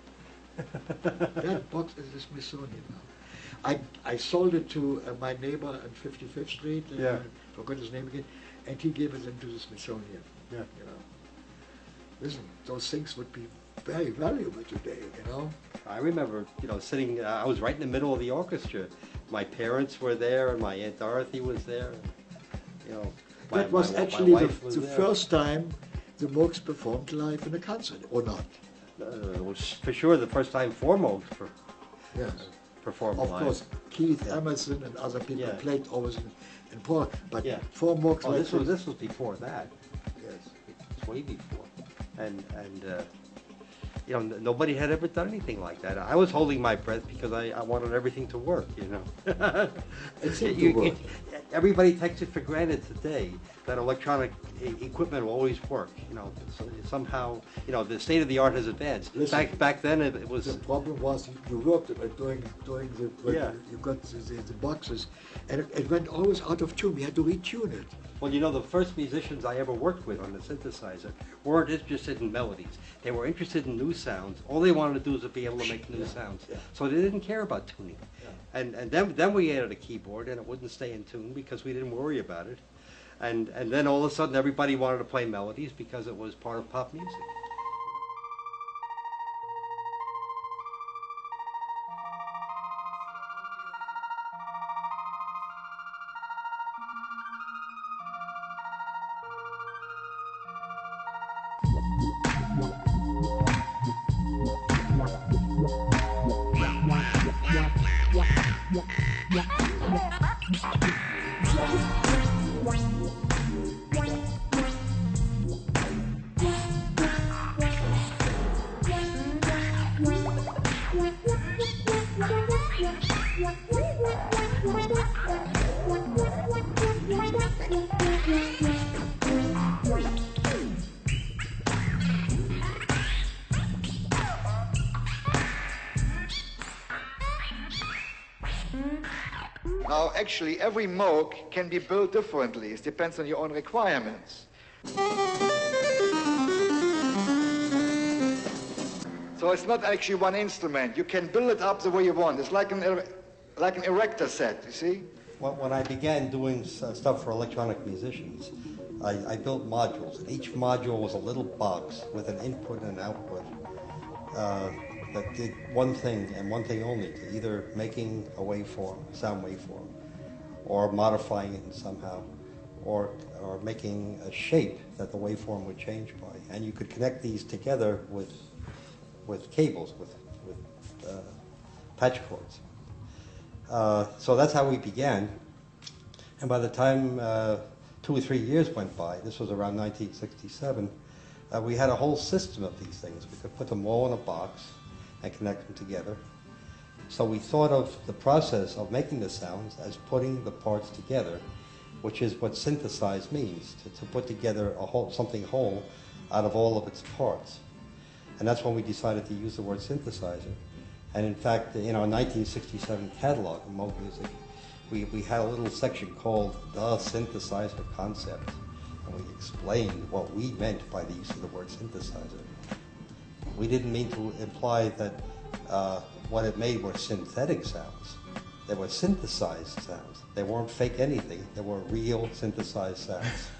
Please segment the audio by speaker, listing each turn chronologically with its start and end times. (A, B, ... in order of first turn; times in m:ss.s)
0:01.4-0:11.0 A
0:07.0-0:07.2 B
0:12.2-0:15.6 A
0:15.8-0:22.1 B
0:22.8-0:25.1 B
0:23.5-0:28.6 A
0:29.0-0:31.5 B
0:32.1-0:32.5 A
0:32.4-0:33.6 B
0:33.2-0:38.8 A
0:35.4-0:35.6 B
0:38.2-0:39.7 B
0:40.2-0:40.5 A
0:40.7-0:43.1 B
0:44.1-1:00.6 B
0:50.2-0:51.0 A
0:59.1-0:59.6 A
1:00.4-1:08.0 A
1:03.2-1:03.6 B
1:08.2-1:22.6 B
1:15.7-1:16.6 A
1:23.2-1:27.3 B
2:19.8-2:24.5 C
2:29.4-2:35.1 C
2:35.4-2:43.5 B
2:44.3-2:49.9 B
2:50.6-2:52.3 B
2:52.8-2:58.6 B
2:59.2-3:01.4 B
3:02.0-3:02.6 B
3:03.7-3:05.4 B
3:06.4-3:11.0 B
3:11.5-3:16.2 B
3:17.1-3:21.4 B
3:22.0-3:27.6 B
3:28.4-3:30.6 B
3:31.1-3:34.4 B
3:34.9-3:42.6 B
3:43.5-3:53.5 B